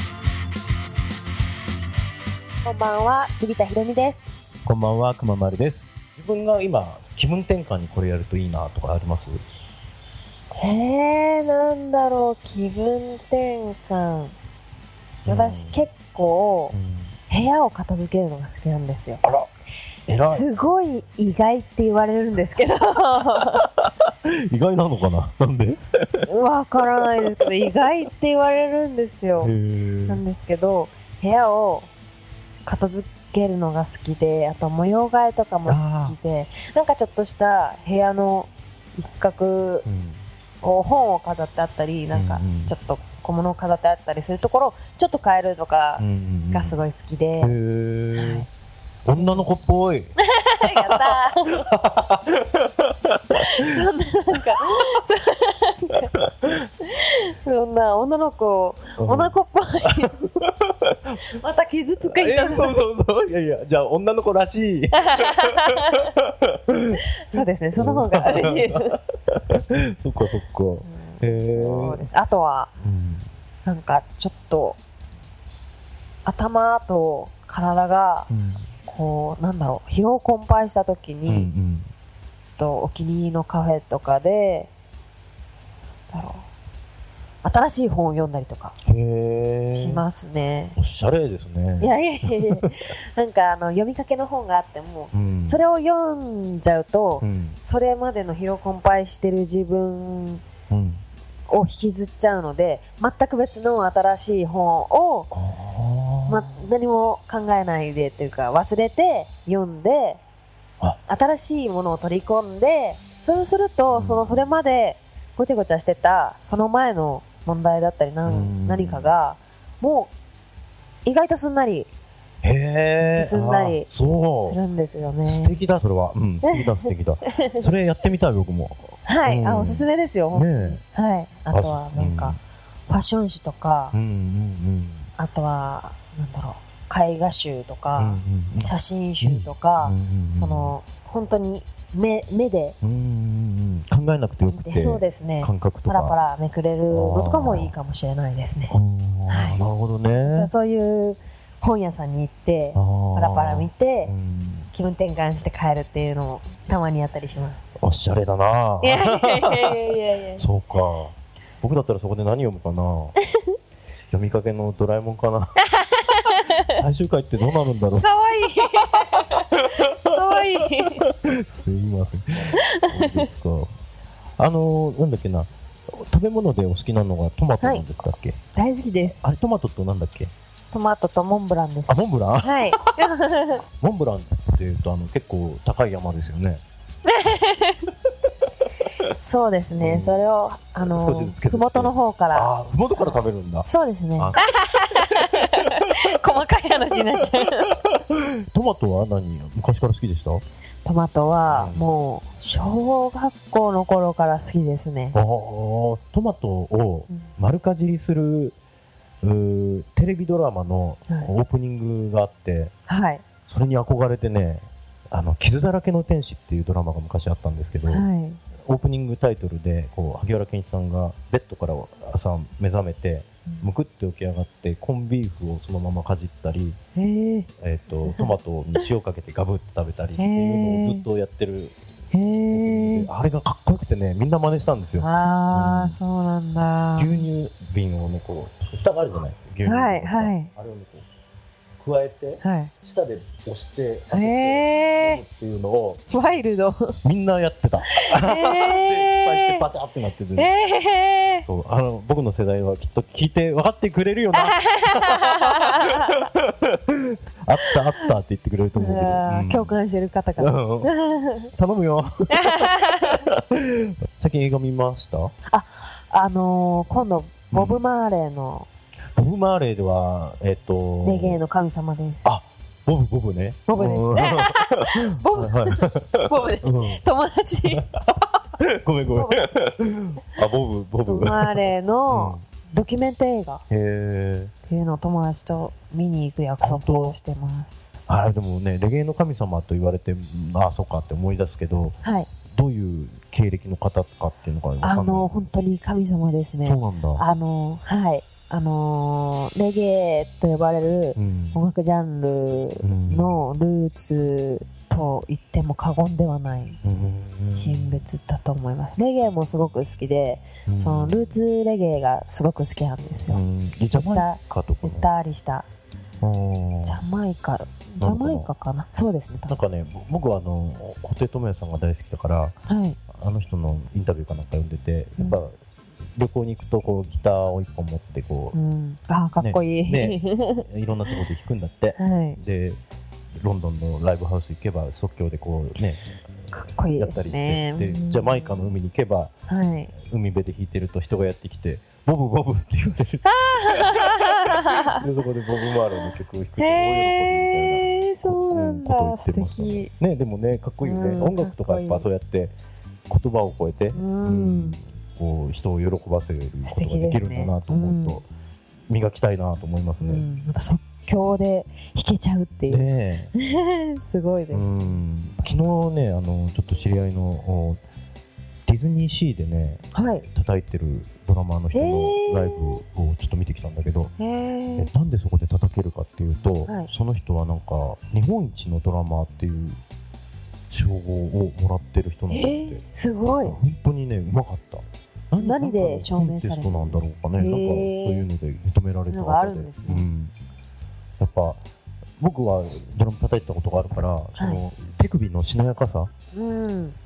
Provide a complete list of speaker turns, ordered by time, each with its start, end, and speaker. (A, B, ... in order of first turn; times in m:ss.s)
0:02.6-0:04.4 A
0:04.7-0:09.4 B
0:10.6-0:14.3 A
0:15.2-0:15.8 B
0:15.3-0:16.8 A
0:16.7-0:17.1 B
0:17.3-0:19.2 A
0:20.1-0:20.4 B
0:20.2-0:23.7 A
0:23.6-0:26.3 B
0:26.3-0:29.5 A
0:29.4-0:30.2 B
0:30.1-0:31.9 A
0:32.6-0:39.9 A
0:35.7-0:36.2 B
0:39.8-0:40.2 B
0:40.6-0:47.6 A
0:42.1-0:42.7 B
0:46.0-0:46.8 B
0:47.4-0:48.5 B
0:48.2-0:48.5 A
0:49.1-0:53.8 B
0:49.1-0:49.5 A
0:50.2-0:51.7 A
0:53.3-0:56.1 A
0:56.1-0:56.7 B
0:56.9-1:00.2 A
0:59.0-0:59.3 B
0:59.9-1:01.2 B
1:01.3-1:02.8 A
1:02.0-1:07.0 B
1:05.0-1:06.1 A
1:07.3-1:09.0 A
1:07.8-1:12.0 B
1:10.8-1:12.7 A
1:12.8-1:13.3 B
1:13.6-1:14.8 A
1:16.2-1:18.3 A
1:18.3-1:18.7 B
1:18.8-1:21.5 A
1:21.3-1:21.9 B
1:22.6-1:24.7 A
1:26.1-1:26.5 A
1:27.4-1:28.8 A
1:28.8-1:30.0 B
1:29.7-1:30.8 A
1:30.8-1:32.8 B
1:31.8-1:40.4 A
1:35.1-1:35.6 B
1:37.2-1:37.6 B
1:40.7-1:41.0 B
1:41.5-1:45.3 A
1:45.3-1:46.5 B
1:46.3-1:50.2 A
1:51.1-2:00.1 A
1:53.9-1:54.5 B
1:58.2-1:59.1 B
2:01.0-2:01.9 A
2:02.4-2:04.6 B
2:03.0-2:03.9 A
2:04.5-2:05.6 A
2:05.2-2:10.8 B
2:06.4-2:07.5 A
2:09.1-2:12.4 A
2:11.5-2:12.4 B
2:12.9-2:14.0 A
2:13.9-2:15.1 B
2:15.2-2:22.8 A
2:18.0-2:20.8 B
2:22.8-2:26.2 B
2:24.5-2:28.8 A
2:26.9-2:27.7 B
2:28.7-2:30.5 B
2:29.3-2:29.6 A
2:30.2-2:34.1 A
2:32.8-2:34.7 B
2:34.7-2:37.6 A
2:37.8-2:39.8 B
2:38.8-2:40.4 A
2:40.4-2:43.1 B
2:44.1-2:45.6 B
2:45.8-2:46.8 A
2:46.7-2:48.1 B
2:47.9-2:51.1 A
2:49.1-2:49.9 B
2:50.6-2:53.7 B
2:52.5-2:53.3 A
2:54.4-2:58.4 B
2:58.6-2:59.2 A
2:59.2-3:00.3 B
3:00.7-3:03.6 A
3:01.9-3:03.1 B
3:03.8-3:06.6 B
3:07.1-3:07.8 A
3:09.2-3:17.8 A
3:09.8-3:10.2 B
3:10.8-3:14.5 B
3:16.9-3:20.4 B
3:20.8-3:25.2 A
3:21.5-3:21.8 B
3:25.1-3:28.6 B
3:29.2-3:32.7 B
3:32.9-3:33.2 A
3:33.5-3:38.1 B
3:37.9-3:38.4 A
3:38.7-3:46.8 B
3:47.0-3:47.5 A
3:47.6-3:51.8 B
3:48.1-3:48.4 A
3:50.2-3:51.1 A
3:52.1-3:53.1 A
3:52.5-3:56.0 B
3:55.0-3:57.3 A
3:57.0-4:01.1 B
3:59.6-4:00.5 A
4:01.8-4:06.1 B
4:02.4-4:02.7 A
4:04.1-4:05.2 A
4:06.1-4:07.0 A
4:07.0-4:10.5 B
4:07.9-4:09.7 A
4:10.4-4:11.5 A
4:11.5-4:19.8 B
4:14.4-4:16.2 A
4:18.8-4:21.5 A
4:20.4-4:20.9 B
4:21.6-4:25.3 B
4:22.3-4:23.2 A
4:25.5-4:28.7 A
4:27.5-4:27.8 B
4:29.2-4:31.4 B
4:31.0-4:32.2 A
4:32.2-4:37.0 B
4:33.7-4:37.9 A
4:37.7-4:42.4 B
4:39.1-4:39.5 A
4:41.1-4:43.6 A
4:43.7-4:44.5 B
4:44.7-4:47.7 A
4:46.6-4:47.2 B
4:48.1-4:52.0 B
4:52.0-4:52.3 A
4:52.5-4:55.3 B
4:54.8-5:06.8 A
4:56.6-4:57.2 B
5:01.2-5:01.6 B
5:02.8-5:03.4 B
5:06.8-5:08.0 B
5:07.5-5:15.7 A
5:10.7-5:11.3 B
5:13.3-5:15.1 B
5:16.2-5:17.0 B
5:16.8-5:19.5 A
5:18.0-5:18.5 B
5:19.5-5:22.6 B
5:22.7-5:23.0 A
5:23.1-5:25.5 B
5:25.2-5:25.4 A
5:26.2-5:28.6 B
5:28.5-5:31.2 A
5:29.4-5:32.8 B
5:32.0-5:32.4 A
5:33.4-5:36.0 B
5:36.5-5:38.8 A
5:37.0-5:39.3 B
5:39.5-5:39.9 A
5:39.9-5:52.5 B
5:43.2-5:45.0 A
5:46.6-5:49.9 A
5:50.8-5:52.1 A
5:53.1-5:58.3 B
5:53.9-5:54.8 A
5:56.6-5:58.2 A
5:58.9-6:00.2 B
6:00.0-6:05.0 A
6:02.7-6:03.3 B
6:04.5-6:07.8 B
6:08.7-6:14.1 B
6:09.9-6:10.3 A
6:11.7-6:12.8 A
6:14.2-6:14.9 A
6:14.8-6:19.8 B
6:20.7-6:22.8 B
6:22.3-6:23.6 A
6:23.4-6:30.3 B
6:25.4-6:28.3 A
6:29.1-6:30.1 A
6:31.2-6:31.6 B
6:32.2-6:36.1 B
6:34.4-6:34.6 A
6:36.3-6:37.0 A